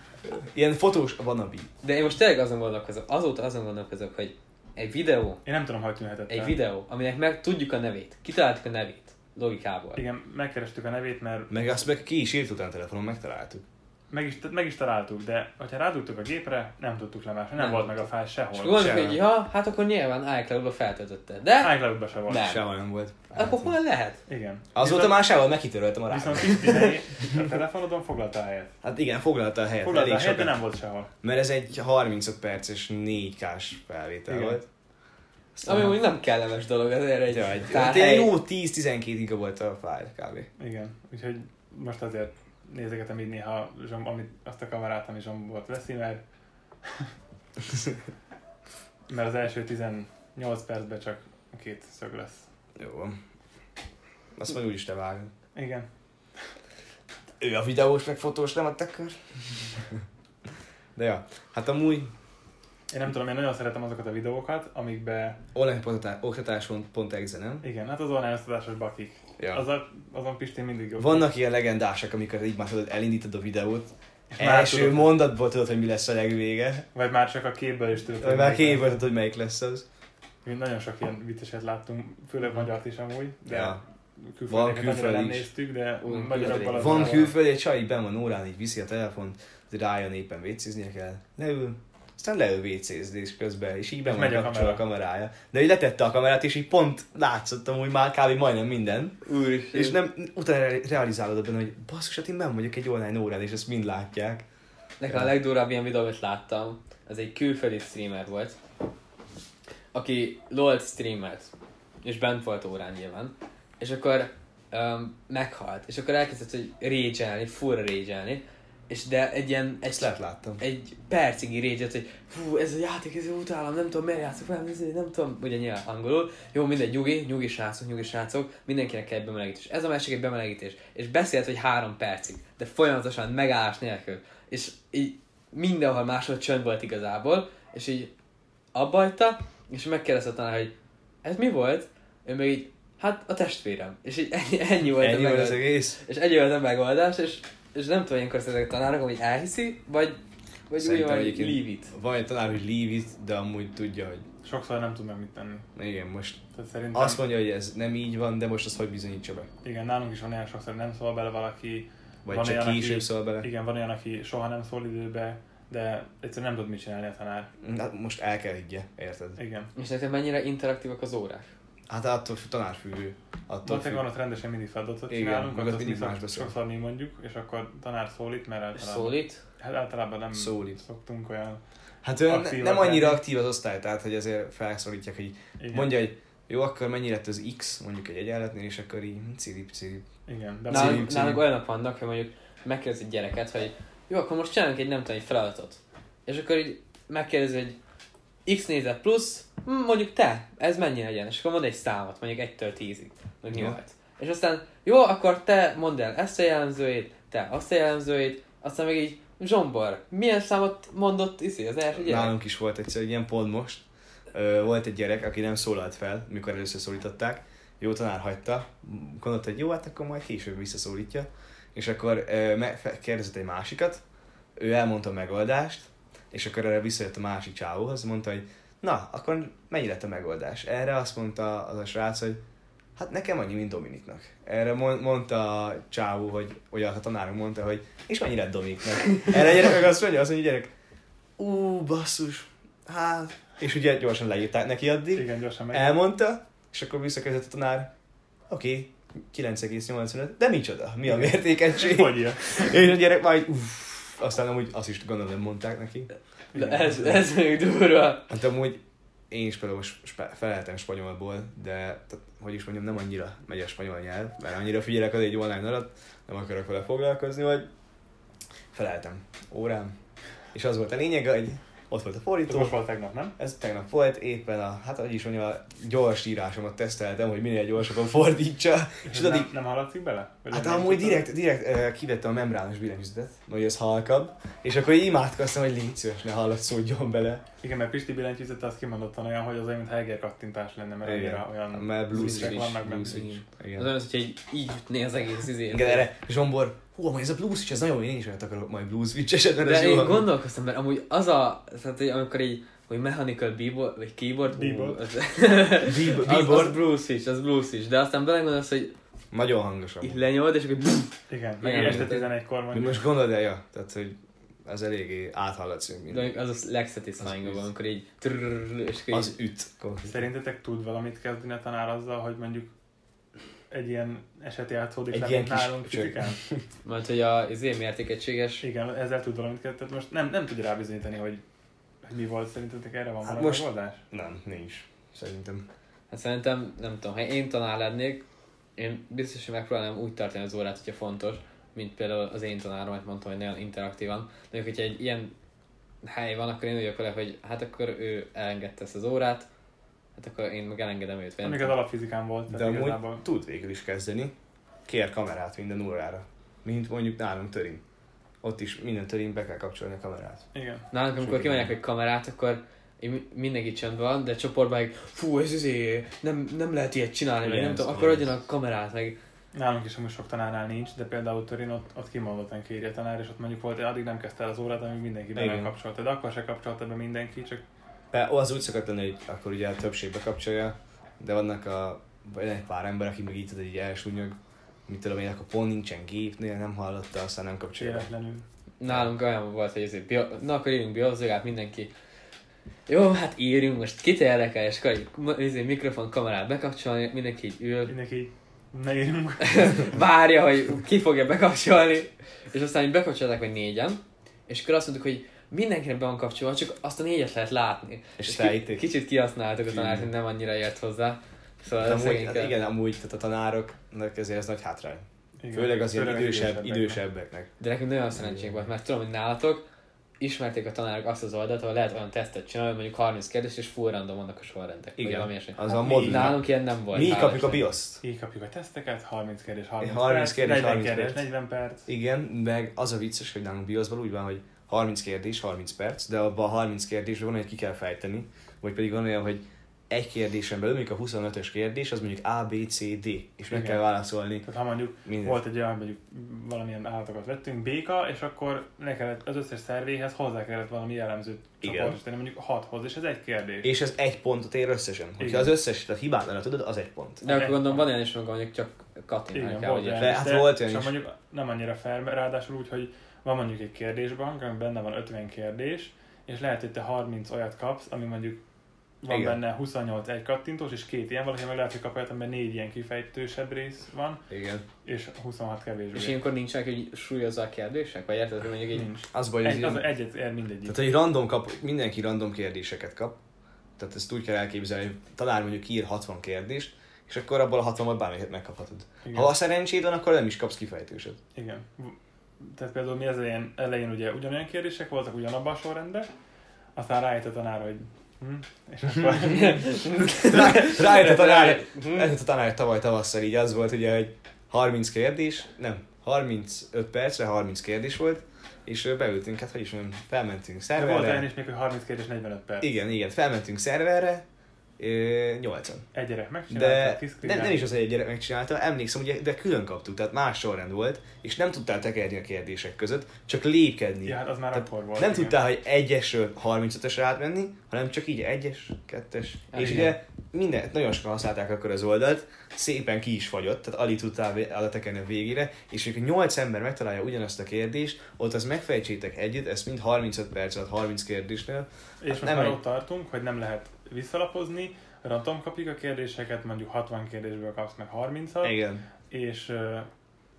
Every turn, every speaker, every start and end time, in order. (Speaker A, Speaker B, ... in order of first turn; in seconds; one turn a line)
Speaker A: 0.3-1.7
Speaker B: 1.8-5.4
Speaker C: 5.4-6.6
Speaker B: 6.3-10.0
Speaker C: 9.9-11.7
Speaker A: 11.5-13.6
Speaker C: 14.1-18.9
Speaker B: 17.6-22.6
Speaker A: 18.7-19.2
Speaker C: 21.6-22.5
Speaker A: 22.3-23.7
Speaker B: 23.3-24.2
Speaker C: 24.3-25.2
Speaker A: 24.7-27.0
Speaker C: 26.1-28.8
Speaker A: 28.8-30.6
Speaker C: 29.8-31.1
Speaker A: 31.2-34.6
Speaker C: 34.3-34.6
Speaker A: 35.6-35.9
Speaker B: 35.6-38.3
Speaker A: 37.3-40.5
Speaker C: 40.6-46.2
Speaker C: 46.8-47.1
Speaker C: 49.1-52.5
Speaker A: 52.8-53.2
Speaker A: 54.3-55.3
Speaker C: 55.5-55.9
Speaker A: 57.4-60.0
Speaker A: 61.0-62.1
Speaker C: 62.9-65.4
Speaker A: 65.5-67.6
Speaker C: 67.6-71.2
Speaker A: 69.4-69.6
Speaker A: 71.0-76.8
Speaker C: 74.3-75.2
Speaker C: 76.9-78.9
Speaker A: 78.2-79.8
Speaker C: 80.4-87.3
Speaker A: 83.5-83.8
Speaker A: 84.5-85.5
Speaker B: 86.0-87.3
Speaker A: 86.7-99.2
Speaker C: 94.0-94.8
Speaker B: 99.2-100.0
Speaker A: 99.7-104.4
Speaker B: 105.0-108.6
Speaker B: 109.9-111.5
Speaker B: 112.0-138.1
Speaker A: 119.9-120.6
Speaker B: 138.7-140.7
Speaker B: 141.2-151.9
Speaker A: 145.0-146.0
Speaker A: 150.8-154.2
Speaker C: 154.4-155.7
Speaker A: 155.8-156.4
Speaker C: 156.5-157.2
Speaker A: 156.9-159.5
Speaker C: 159.6-167.5
Speaker A: 162.2-163.5
Speaker A: 167.6-169.4
Speaker C: 169.4-169.7
Speaker B: 169.7-171.5
Speaker A: 171.9-174.1
Speaker C: 173.6-181.6
Speaker A: 175.1-176.5
Speaker B: 178.7-179.4
Speaker A: 180.3-180.8
Speaker A: 182.0-190.1
Speaker C: 182.2-183.2
Speaker C: 185.6-185.9
Speaker C: 190.3-191.2
Speaker A: 190.7-191.4
Speaker B: 190.7-197.8
Speaker B: 198.4-212.3
Speaker A: 203.5-203.8
Speaker A: 211.9-224.0
Speaker A: 224.6-232.4
Speaker A: 233.0-240.7
Speaker A: 241.4-247.9
Speaker C: 245.1-246.0
Speaker A: 248.5-256.1
Speaker C: 251.1-252.7
Speaker C: 256.5-257.1
Speaker B: 256.5-258.3
Speaker A: 258.3-267.7
Speaker A: 268.7-269.9
Speaker A: 270.5-272.7
Speaker C: 272.5-273.3
Speaker A: 273.4-279.5
Speaker C: 279.0-281.3
Speaker A: 280.5-287.4
Speaker C: 287.6-293.4
Speaker A: 291.0-293.9
Speaker B: 293.7-296.1
Speaker A: 295.7-300.3
Speaker B: 299.6-308.9
Speaker C: 304.5-305.0
Speaker A: 305.8-306.8
Speaker A: 309.3-310.2
Speaker B: 310.0-312.3
Speaker C: 311.3-313.0
Speaker A: 311.8-312.1
Speaker A: 312.7-316.3
Speaker B: 316.1-319.3
Speaker A: 317.2-317.6
Speaker A: 319.1-320.2
Speaker C: 320.1-322.7
Speaker C: 323.7-326.4
Speaker A: 325.1-326.6
Speaker B: 326.8-328.6
Speaker C: 328.6-331.4
Speaker C: 332.1-334.0
Speaker A: 333.2-335.7
Speaker B: 336.1-338.2
Speaker B: 338.8-345.3
Speaker B: 346.0-349.5
Speaker B: 350.2-351.8
Speaker C: 351.4-353.2
Speaker A: 352.5-354.3
Speaker A: 354.9-357.8
Speaker A: 358.4-360.4
Speaker C: 360.5-360.9
Speaker B: 360.9-369.2
Speaker A: 361.2-361.7
Speaker A: 367.4-368.3
Speaker C: 369.5-377.6
Speaker A: 375.3-375.7
Speaker A: 378.1-384.4
Speaker A: 384.9-388.1
Speaker C: 387.8-388.4
Speaker B: 388.8-391.9
Speaker B: 392.9-397.9
Speaker C: 397.9-399.9
Speaker B: 399.4-412.5
Speaker A: 408.2-408.8
Speaker A: 409.7-410.1
Speaker A: 411.8-417.5
Speaker C: 415.4-417.0
Speaker B: 417.6-419.6
Speaker B: 420.2-427.6
Speaker A: 425.0-428.0
Speaker C: 425.7-426.3
Speaker C: 428.0-431.9
Speaker A: 429.8-431.2
Speaker A: 431.9-444.4
Speaker C: 443.5-443.8
Speaker C: 444.4-453.7
Speaker A: 445.1-445.4
Speaker A: 451.6-452.0
Speaker A: 453.6-457.2
Speaker C: 455.2-455.5
Speaker B: 457.2-460.2
Speaker C: 457.3-457.8
Speaker C: 459.3-468.4
Speaker A: 460.0-460.9
Speaker C: 469.0-474.2
Speaker A: 469.1-469.4
Speaker A: 474.3-474.6
Speaker C: 474.8-476.2
Speaker B: 475.9-478.9
Speaker C: 478.7-480.8
Speaker A: 479.1-479.8
Speaker A: 480.6-483.2
Speaker A: 483.8-491.2
Speaker C: 489.0-489.3
Speaker C: 491.3-496.1
Speaker C: 496.7-499.9
Speaker B: 499.2-502.1
Speaker A: 500.2-511.2
Speaker C: 510.8-512.7
Speaker A: 512.6-514.2
Speaker A: 514.8-515.9
Speaker C: 515.9-517.6
Speaker A: 516.5-542.6
Speaker C: 524.0-525.4
Speaker B: 529.5-529.9
Speaker C: 529.6-529.9
Speaker C: 542.0-548.5
Speaker A: 548.4-548.8
Speaker C: 549.1-549.9